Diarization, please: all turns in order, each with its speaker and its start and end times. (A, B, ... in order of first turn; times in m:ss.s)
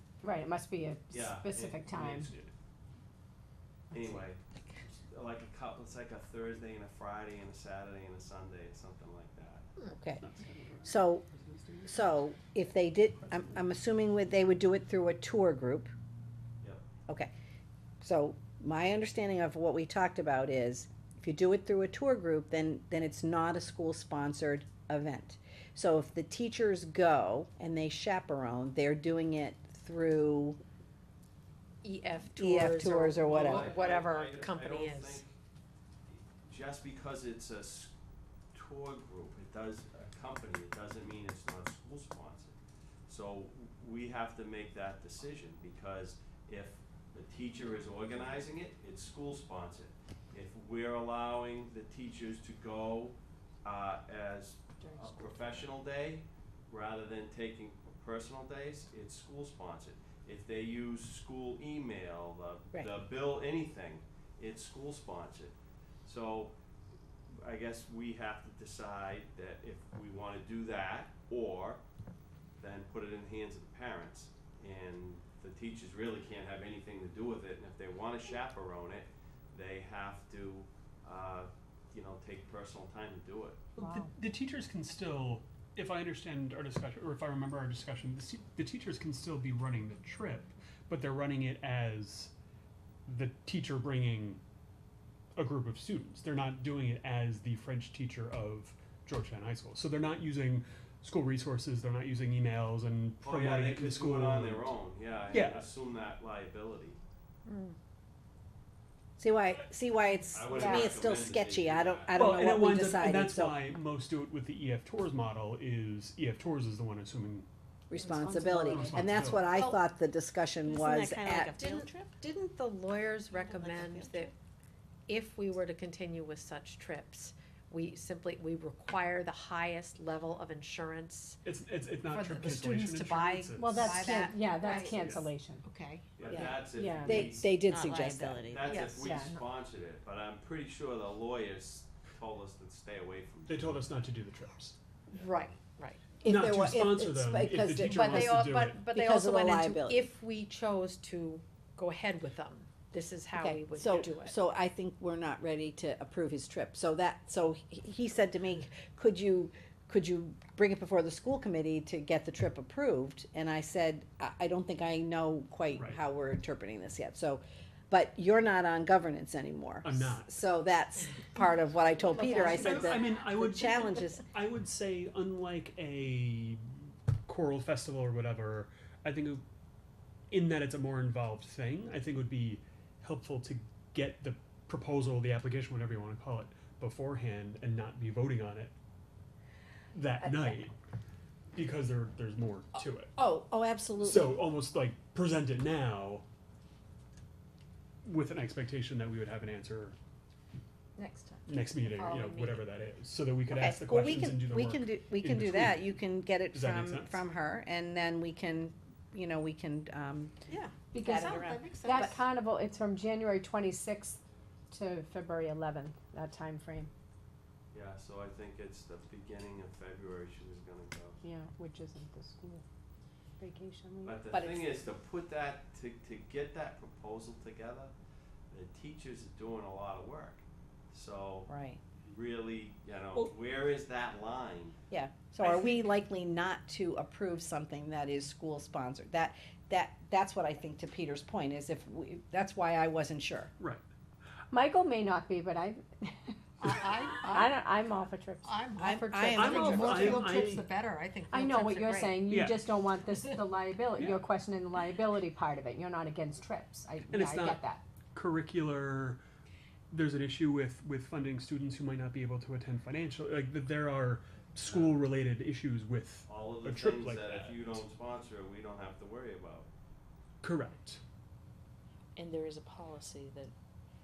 0:00.2-0:02.3 A
0:01.1-0:02.5 B
0:03.9-0:09.7 B
0:09.9-0:10.2 C
0:10.2-0:12.2 D
0:10.8-0:11.2 C
0:11.8-0:15.9 C
0:13.2-0:13.6 D
0:18.0-0:30.6 C
0:31.8-0:35.2 E
0:32.4-0:33.8 C
0:33.2-0:35.3 B
0:36.4-0:37.9 B
0:38.5-0:42.6 B
0:43.1-1:06.5 B
1:07.4-1:11.8 B
1:12.6-1:23.6 B
1:23.8-1:32.3 D
1:23.8-1:24.1 A
1:33.1-1:34.4 D
1:35.4-1:44.7 D
1:43.2-1:47.0 B
1:45.3-1:45.7 D
1:47.5-1:47.8 E
1:49.2-1:53.6 C
1:50.3-1:52.4 B
1:50.5-1:51.0 A
1:52.1-1:57.5 D
1:57.9-2:01.5 C
1:58.0-1:59.2 A
1:58.7-1:59.5 D
2:00.6-2:02.2 F
2:01.4-2:04.3 E
2:03.3-2:04.3 F
2:05.1-2:11.4 E
2:11.4-2:14.2 D
2:12.0-2:15.0 E
2:13.5-2:15.6 A
2:13.9-2:14.4 C
2:14.9-2:15.3 D
2:15.6-2:16.0 E
2:16.2-2:16.5 D
2:16.2-2:17.5 B
2:16.3-2:18.4 C
2:16.8-2:17.3 A
2:17.7-2:18.8 F
2:18.5-2:23.8 B
2:18.6-2:19.1 E
2:18.9-2:19.5 A
2:23.5-2:24.8 D
2:25.1-2:26.0 E
2:26.2-2:28.9 D
2:26.2-2:30.1 C
2:28.0-2:34.4 E
2:33.3-2:54.2 C
2:49.8-2:50.3 D
2:52.1-2:52.9 E
2:52.3-2:52.7 A
2:52.5-2:59.4 D
3:00.3-3:08.7 D
3:09.9-3:10.7 D
3:10.2-3:10.6 C
3:11.6-3:13.1 D
3:13.2-3:14.4 C
3:14.0-3:16.2 D
3:18.0-3:20.0 D
3:21.0-3:22.6 E
3:21.5-3:26.0 D
3:23.5-3:30.4 C
3:26.5-3:27.2 D
3:30.5-3:32.2 E
3:30.9-3:36.9 A
3:31.0-3:32.2 C
3:37.7-3:41.2 B
3:41.2-3:42.6 A
3:43.4-3:44.2 A
3:44.0-3:47.9 B
3:44.3-3:44.7 C
3:48.5-3:51.5 B
3:51.5-3:51.8 C
3:52.0-3:54.8 B
3:54.9-4:03.5 C
3:55.4-3:55.8 B
4:04.5-4:06.7 A
4:06.6-4:07.6 E
4:07.2-4:08.6 A
4:08.4-4:12.2 E
4:08.8-4:10.4 C
4:09.3-4:10.6 D
4:11.3-4:17.8 A
4:12.3-4:12.8 D
4:14.0-4:14.3 D
4:17.1-4:17.6 D
4:18.1-4:19.2 D
4:19.9-4:27.8 D
4:24.6-4:25.0 B
4:26.3-4:29.7 B
4:30.4-4:31.0 D
4:32.2-4:33.5 F